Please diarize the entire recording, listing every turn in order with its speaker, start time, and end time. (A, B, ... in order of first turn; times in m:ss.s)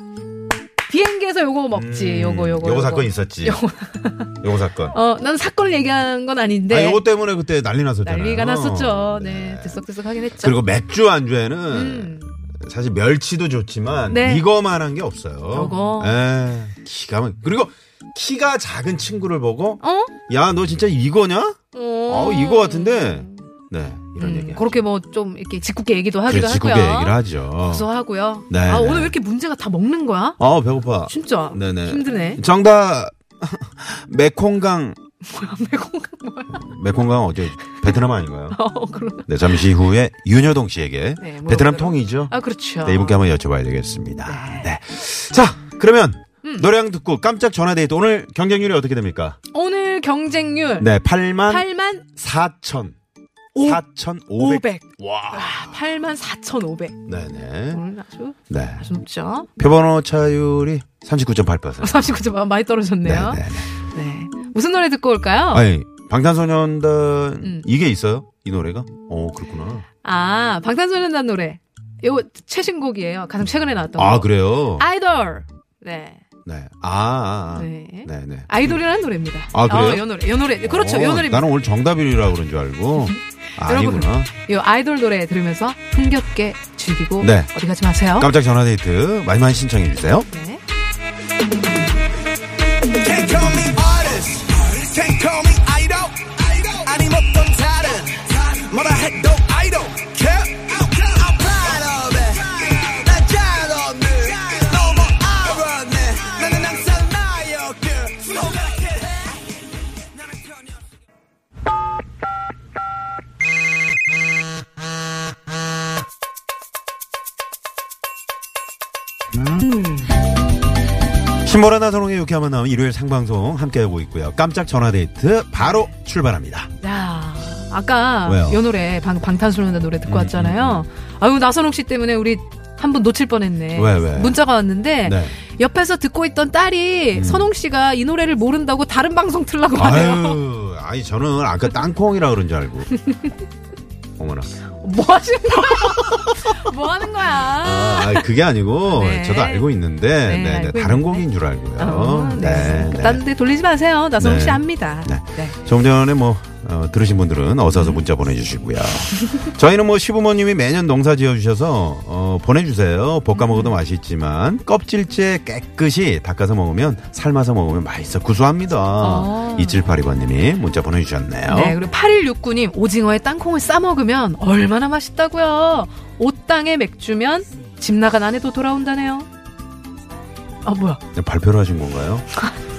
0:00.9-0:07.0 A
0:01.7-0:03.6 B
0:04.4-0:05.0 B
0:06.7-0:09.8 B
0:08.0-0:10.6 A
0:10.4-0:24.7 B
0:11.7-0:12.4 A
0:14.1-0:14.4 A
0:15.5-0:16.2 A
0:19.8-0:20.1 A
0:21.7-0:23.5 A
0:24.2-0:30.4 A
0:26.3-0:27.9 B
0:28.5-0:29.2 B
0:30.4-0:35.0 B
0:31.0-0:32.4 A
0:35.2-0:36.6 A
0:36.5-0:38.6 B
0:38.5-0:39.6 A
0:39.3-0:49.4 B
0:41.2-0:43.2 A
0:44.2-0:44.7 A
0:46.4-0:46.7 A
0:49.5-0:50.9 A
0:50.8-0:53.0 B
0:51.4-0:52.1 A
0:53.5-0:53.8 A
0:53.6-0:55.8 B
0:54.4-0:57.0 A
0:57.1-0:57.8 B
0:57.7-0:59.5 A
0:58.5-0:58.9 B
0:59.6-1:02.1 B
1:01.8-1:05.6 A
1:03.0-1:03.7 B
1:05.5-1:09.8 B
1:07.4-1:07.7 A
1:10.0-1:16.2 A
1:13.9-1:14.8 B
1:16.4-1:18.8 B
1:17.5-1:21.5 A
1:19.5-1:24.3 B
1:22.9-1:28.3 A
1:27.2-1:27.5 B
1:28.1-1:30.3 B
1:30.3-1:30.6 A
1:33.0-1:49.2 C
2:01.4-2:06.7 B
2:05.6-2:05.8 A
2:06.8-2:20.4 A
2:08.2-2:08.6 B
2:10.0-2:10.9 B
2:13.7-2:14.4 B
2:15.0-2:15.4 B
2:17.1-2:17.5 B
2:19.8-2:22.9 B
2:22.9-2:23.3 A
2:24.2-2:24.5 B
2:24.8-2:28.3 A
2:27.6-2:33.2 B
2:28.9-2:29.7 A
2:30.2-2:35.6 A
2:34.2-2:51.8 B
2:37.7-2:38.0 A
2:43.3-2:43.8 A
2:49.0-2:49.8 A
2:51.5-2:59.3 A
3:00.6-3:01.0 A
3:01.1-3:02.2 B